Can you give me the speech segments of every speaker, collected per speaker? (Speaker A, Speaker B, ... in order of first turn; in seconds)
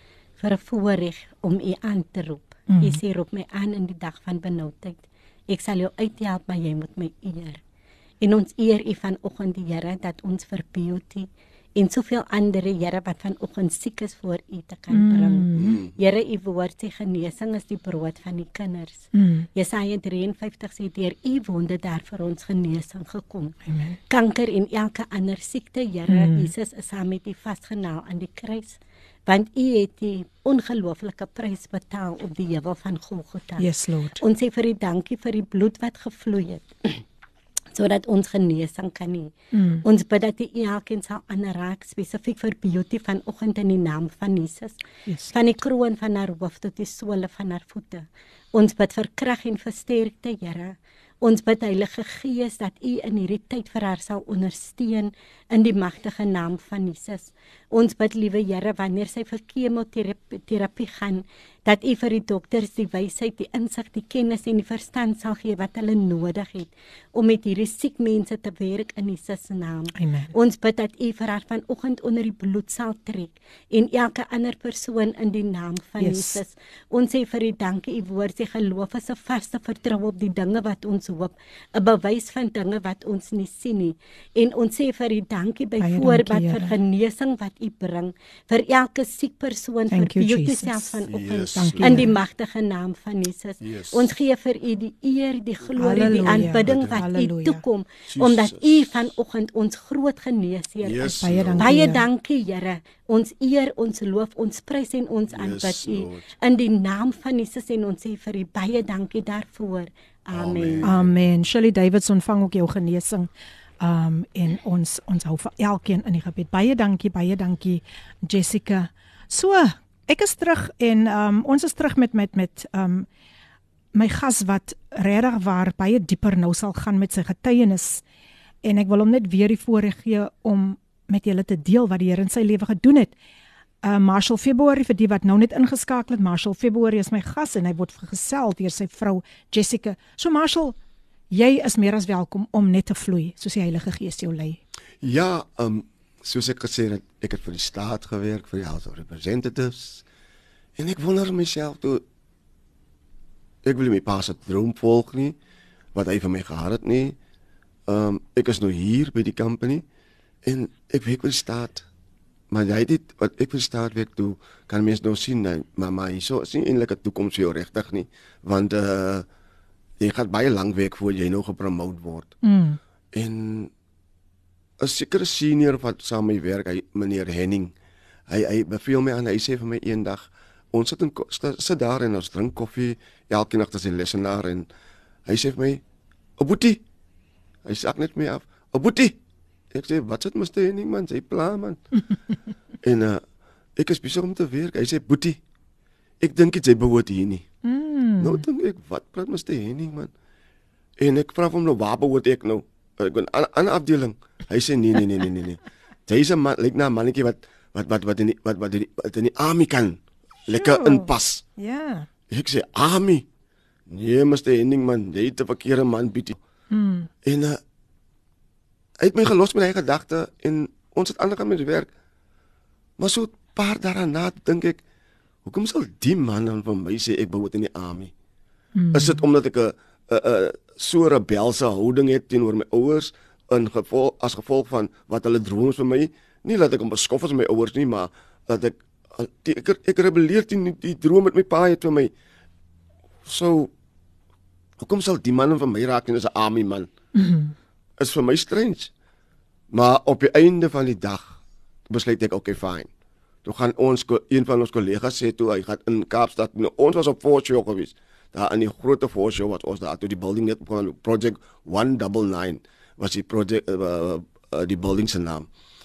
Speaker A: 0.4-7.6, 8.2-23.5, 24.1-33.7, 34.2-37.0, 37.7-44.8, 45.3-110.9
Speaker B: 2.7-3.0, 14.9-15.8, 19.1-19.5, 23.6-24.0, 26.1-26.5, 33.6-34.2, 39.5-39.9, 45.1-45.4, 69.9-70.3, 76.0-76.4, 85.8-86.8, 89.9-92.1, 95.8-97.6, 101.2-102.0, 110.8-113.3, 113.8-123.1, 123.9-128.0, 128.6-133.1, 133.8-140.8, 141.3-144.6, 172.4-172.8, 197.6-198.4, 210.5-212.1, 216.7-217.1, 228.8-229.2, 247.1-247.5
Speaker C: 15.6-15.9, 91.0-92.2, 93.6-94.1, 96.3-97.0, 98.1-99.0, 100.8-101.8, 105.3-106.3, 110.3-111.1, 145.0-150.0, 150.8-152.0, 153.6-155.3, 155.9-157.2, 157.9-159.8, 160.4-161.8, 162.5-169.2, 170.0-172.3, 173.1-173.7, 174.8-177.7, 178.3-184.7, 185.3-185.8, 186.4-186.8, 187.6-189.2, 189.7-191.8, 192.8-193.2, 193.8-195.4, 196.2-197.4, 198.2-200.1, 201.0-211.4, 212.3-213.2, 213.9-216.4, 217.2-217.6, 219.0-221.9, 223.0-224.8, 225.4-228.1, 228.9-242.1, 243.2-243.7, 244.8-246.9, 248.0-248.9, 249.7-251.4, 251.9-252.9, 253.4-265.5